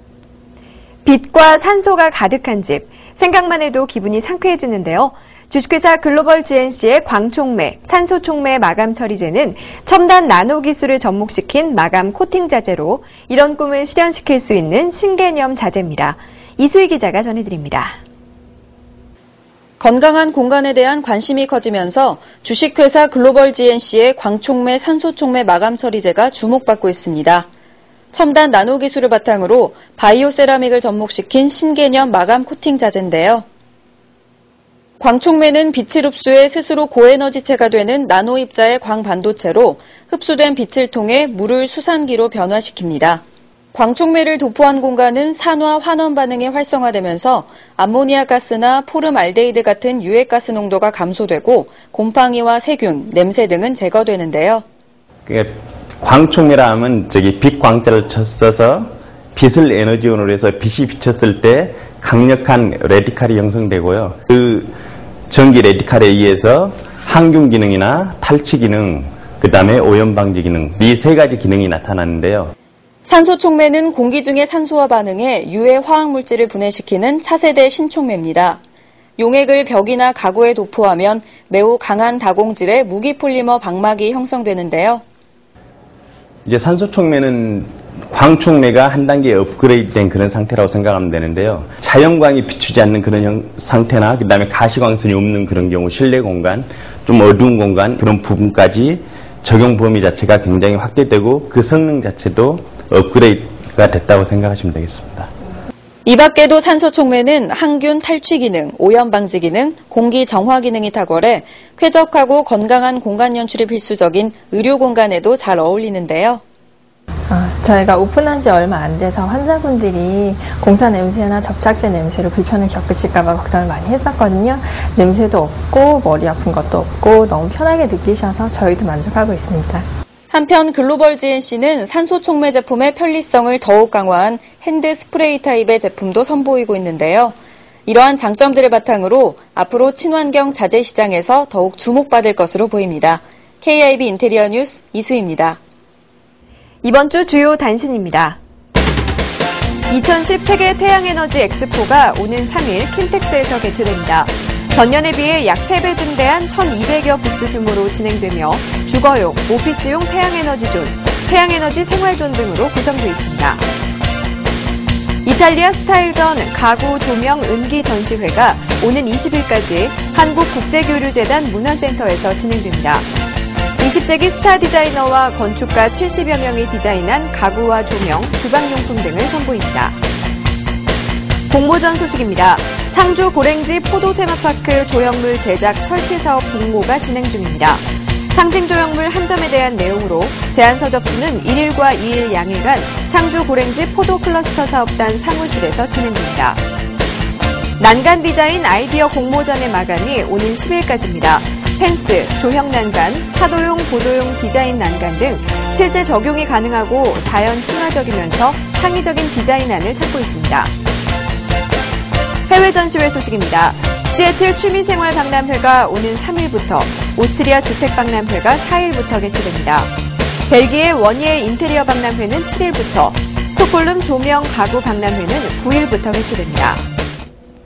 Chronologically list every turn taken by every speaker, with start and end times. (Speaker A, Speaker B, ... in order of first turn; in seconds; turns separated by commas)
Speaker A: 1.0-18.0, Speaker B: 19.8-27.5, Speaker B: 28.1-33.4, Speaker B: 35.0-43.2, Speaker B: 43.7-54.6, Speaker C: 55.2-64.7, Speaker C: 65.3-72.5, Speaker B: 73.1-78.6, Speaker B: 79.2-85.0, Speaker C: 86.5-105.3, Speaker B: 106.0-116.4, Speaker D: 117.3-129.9, Speaker B: 130.3-137.3, Speaker B: 137.8-145.6, Speaker A: 146.8-148.4, Speaker A: 149.9-163.7, Speaker A: 165.2-173.1, Speaker A: 173.8-180.0, Speaker A: 181.5-196.6, Speaker A: 197.8-210.7, Speaker A: 212.5-219.9, Speaker A: 220.5-226.9